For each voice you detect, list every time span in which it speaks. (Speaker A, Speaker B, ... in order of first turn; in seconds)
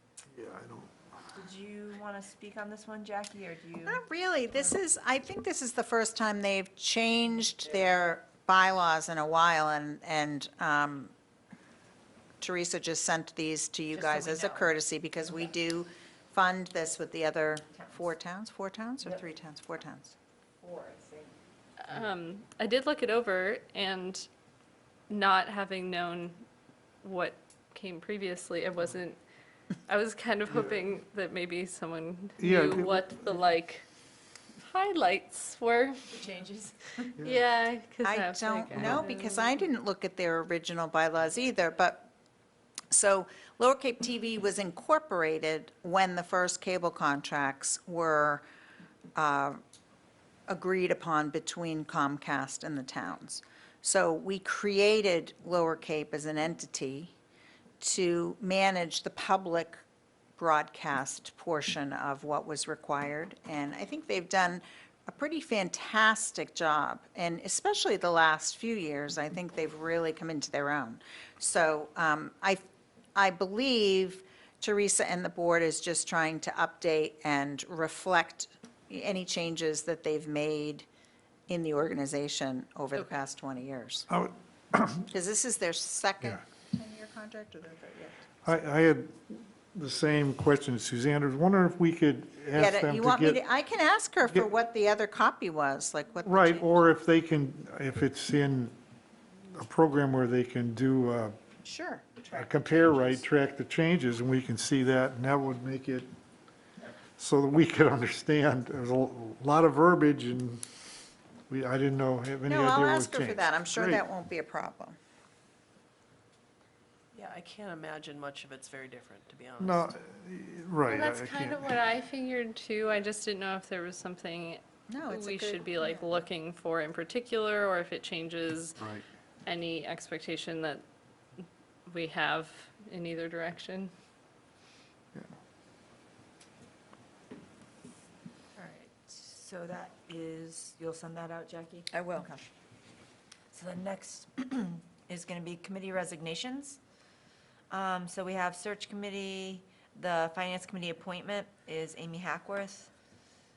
Speaker A: 0.3-0.9, 30.5-30.8, 32.4-33.3, 38.7-39.0, 84.1-85.1, 88.5-93.4, 96.2-98.8, 99.5-101.4, 102.3-106.1, 107.2-110.7, 111.5-114.1, 119.6-121.7, 128.8-129.1
Speaker B: 1.4-4.0, 13.9-14.7, 17.7-18.1, 20.6-21.4, 36.1-37.1, 138.6-142.4, 143.5-146.8, 147.7-152.9
Speaker C: 3.8-11.1, 12.4-20.2, 38.0-42.1, 42.9-48.4, 49.2-49.6, 50.5-57.1, 57.8-59.8, 60.4-72.7, 73.2-80.9, 81.5-84.1, 85.1-88.3, 92.5-96.8, 101.6-103.3, 112.5-115.0, 124.9-126.2, 141.9-142.3
Speaker D: 21.8-24.3, 25.1-26.4, 27.0-29.2, 29.9-33.9, 34.6-36.2, 37.2-39.6, 120.9-128.9, 129.4-130.8, 131.9-133.9
Speaker E: 117.1-120.0